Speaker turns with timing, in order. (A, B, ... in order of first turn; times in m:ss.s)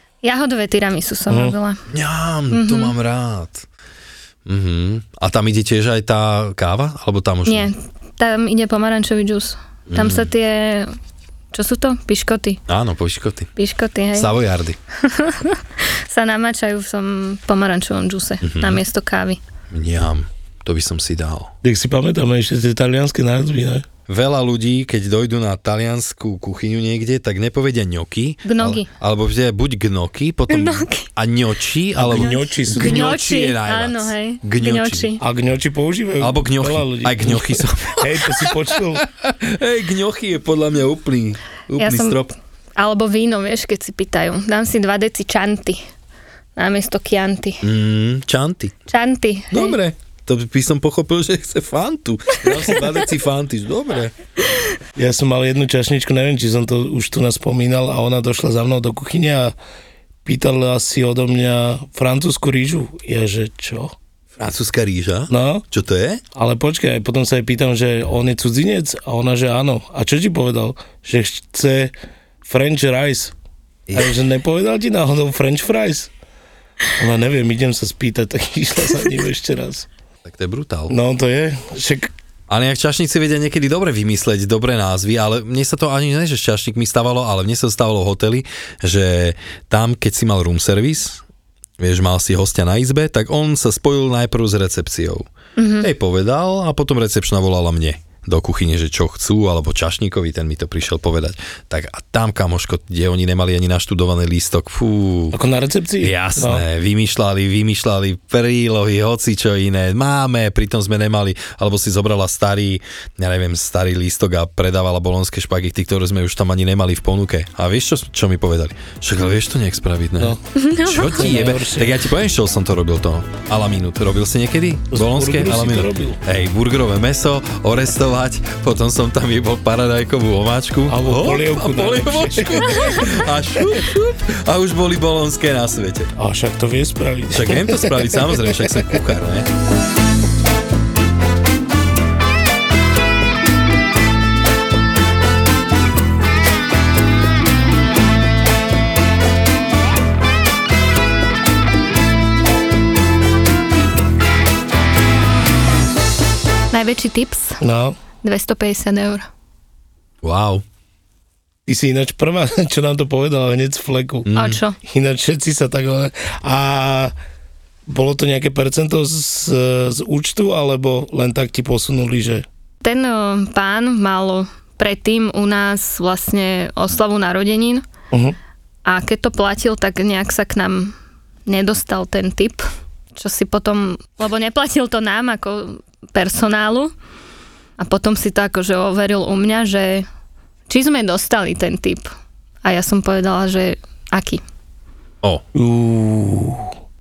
0:00.2-0:01.8 A
0:01.3-0:01.6 B
0:01.9-0:03.7 C
0:02.5-0:02.9 A
0:04.5-0:07.7 C
0:07.5-0:10.9 A
0:09.9-0:10.3 C
0:11.5-0:12.6 A
0:12.7-0:13.5 C
0:13.6-0:14.3 A
0:14.2-0:14.8 C
0:15.0-0:19.4 A
0:18.4-0:18.8 C
0:19.7-0:21.5 C
0:21.6-0:23.9 B
0:24.1-0:35.1 C
0:28.4-0:28.9 A
0:30.5-0:31.1 A
0:32.0-0:33.2 B
0:32.2-0:35.2 A
0:35.2-0:39.0 B
0:36.2-0:42.3 C
0:41.8-0:42.2 A
0:42.8-0:45.8 A
0:46.6-0:47.6 A
0:47.6-0:48.8 C
0:48.9-0:49.8 A
0:49.5-0:54.1 C
0:55.0-0:59.5 B
1:00.2-1:04.0 B
1:04.4-1:06.2 C
1:05.3-1:05.6 B
1:06.4-1:11.9 B
1:12.4-1:13.3 B
1:13.9-1:16.1 B
1:17.0-1:19.9 B
1:20.2-1:21.0 C
1:20.9-1:22.1 B
1:22.5-1:31.2 C
1:31.8-1:35.3 C
1:35.6-1:35.9 A
1:35.8-1:45.4 C
1:45.3-1:46.6 B
1:46.0-2:16.1 C
2:00.6-2:01.2 A
2:01.0-2:02.0 B
2:04.9-2:06.2 B
2:10.9-2:13.1 B
2:16.2-2:18.8 B
2:17.3-2:19.5 C
2:36.7-2:37.6 A
2:37.6-2:38.0 B
2:38.2-2:39.2 A
2:40.2-2:40.6 C
2:41.7-2:44.3 B
2:44.3-2:44.6 C
2:44.3-2:44.8 A
2:44.8-2:47.1 B
2:47.9-2:52.4 B
2:52.8-2:57.8 A
2:58.9-3:01.0 A
3:01.5-3:02.6 A
3:03.2-3:06.9 A
3:07.8-3:10.1 A
3:10.7-3:12.1 A
3:12.6-3:14.4 A
3:15.6-3:16.7 B